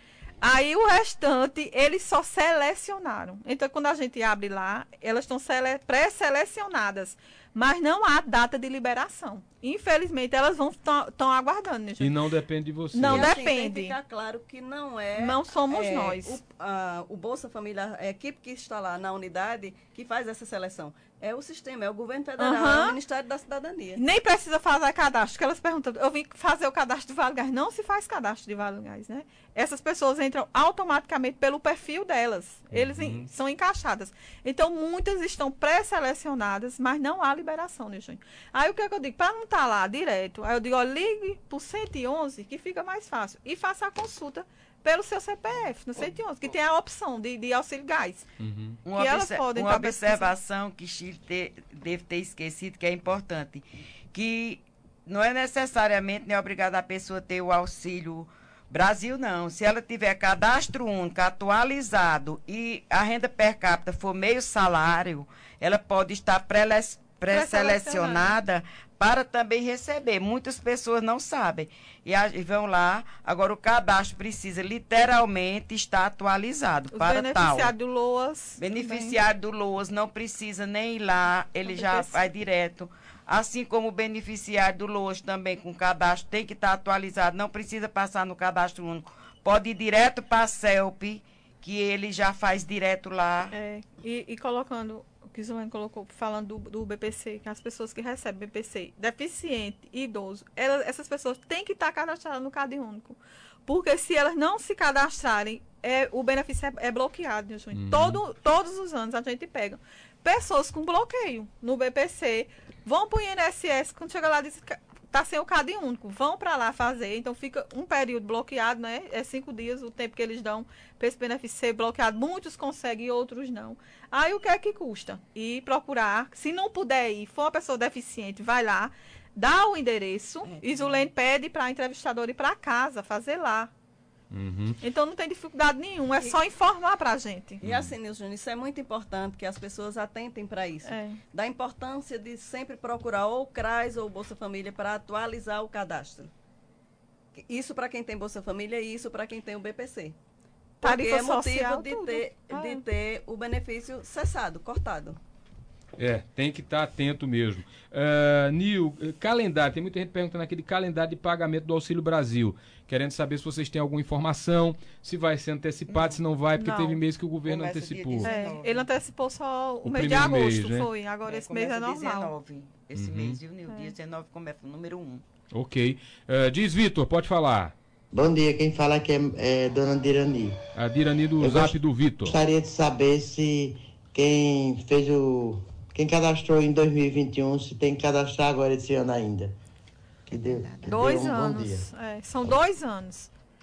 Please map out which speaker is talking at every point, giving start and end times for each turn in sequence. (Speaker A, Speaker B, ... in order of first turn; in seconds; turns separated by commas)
Speaker A: 0.4-12.2, Speaker B: 12.0-13.3, Speaker A: 12.9-13.9, Speaker C: 13.0-24.0, Speaker A: 15.2-16.4, Speaker A: 22.4-23.0, Speaker A: 24.0-48.3, Speaker B: 32.7-33.3, Speaker B: 48.4-48.8, Speaker D: 48.9-77.7, Speaker A: 48.9-50.3, Speaker A: 67.3-68.3, Speaker A: 76.9-79.2, Speaker D: 78.6-93.5, Speaker A: 81.7-82.2, Speaker A: 93.5-133.7, Speaker B: 107.7-108.2, Speaker C: 130.5-131.1, Speaker B: 134.3-134.8, Speaker A: 134.8-137.6, Speaker B: 137.6-137.9, Speaker C: 137.6-146.3, Speaker A: 140.8-141.2, Speaker C: 147.4-150.2, Speaker C: 150.8-155.2, Speaker A: 150.8-152.8, Speaker B: 156.0-168.4, Speaker D: 165.9-166.2, Speaker A: 166.6-167.0, Speaker D: 167.4-168.9, Speaker A: 168.2-172.3, Speaker B: 169.8-170.9, Speaker D: 171.2-175.2, Speaker B: 172.9-173.4, Speaker A: 173.7-173.9, Speaker B: 175.5-177.7, Speaker E: 178.1-180.6, Speaker B: 180.7-182.4, Speaker E: 181.4-189.5, Speaker E: 190.3-191.9, Speaker A: 190.8-193.3